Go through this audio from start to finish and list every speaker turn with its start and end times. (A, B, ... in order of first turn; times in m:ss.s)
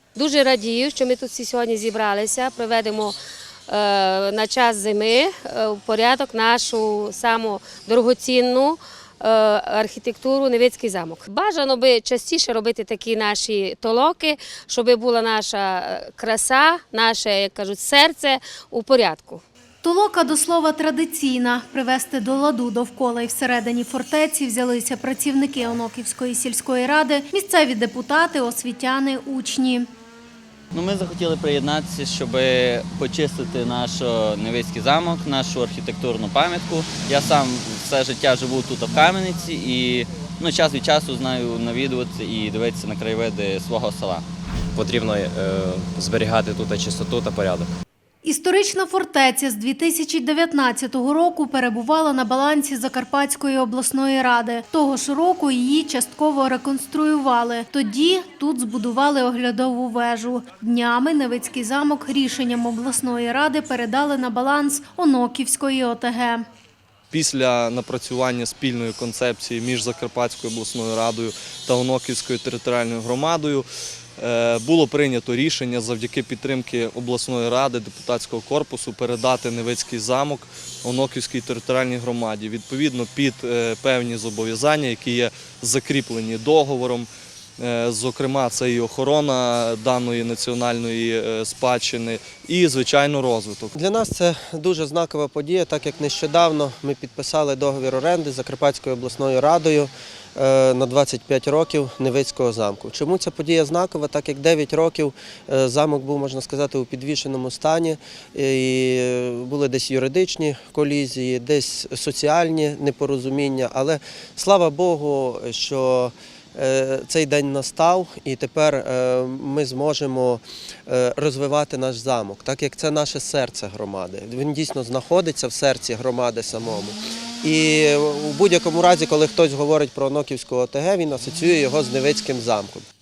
0:00.2-0:03.2 A
0:03.7-0:19.4 A
0:19.8-0:29.9 B
0:30.7-0:44.2 C
0:44.8-0:47.7 D
0:48.2-1:06.4 B
1:07.1-1:13.7 E
1:14.2-1:33.8 E
1:33.8-2:12.9 F